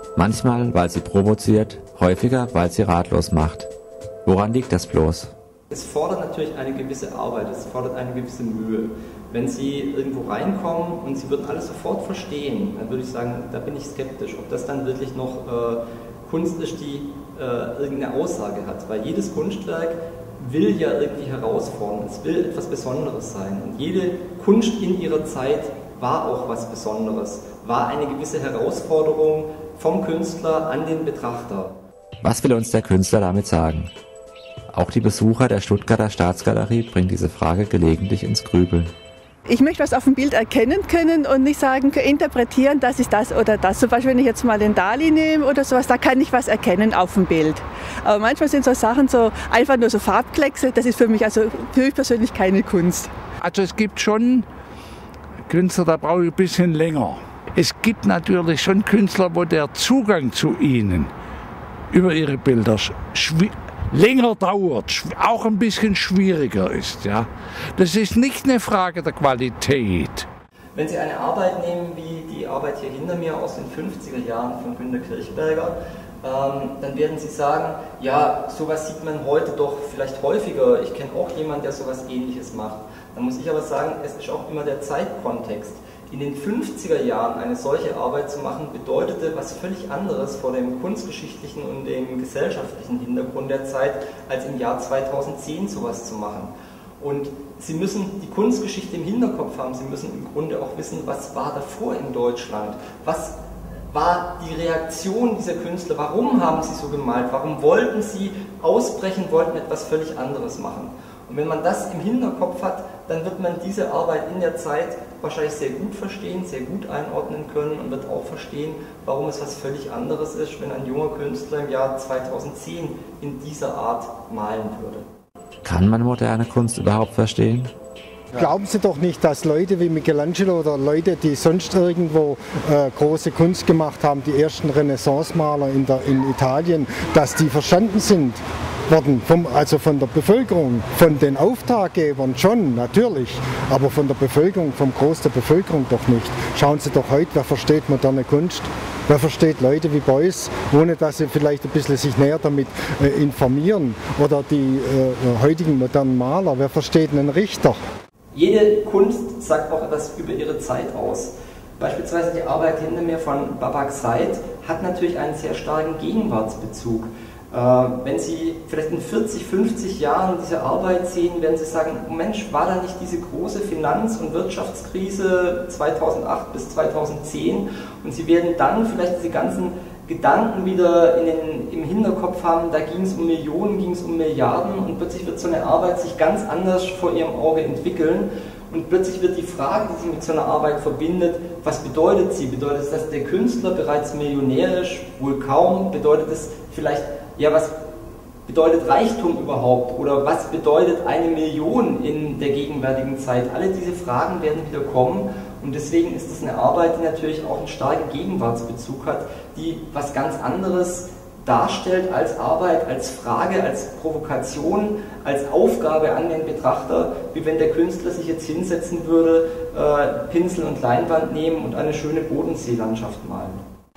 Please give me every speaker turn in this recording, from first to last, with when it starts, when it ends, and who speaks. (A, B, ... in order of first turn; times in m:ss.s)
0:00.2-0:03.7 A
0:04.2-0:05.3 A
0:05.7-0:31.8 B
0:32.2-0:33.9 A
0:34.7-0:38.9 A
0:39.5-0:53.1 C
0:53.4-0:54.5 D
0:55.5-1:01.1 D
1:01.9-1:10.2 D
1:10.7-1:43.4 B
1:43.9-2:05.1 B
2:05.6-2:07.7 A
2:08.3-2:37.8 E
2:38.3-3:17.7 B
3:18.4-3:43.6 B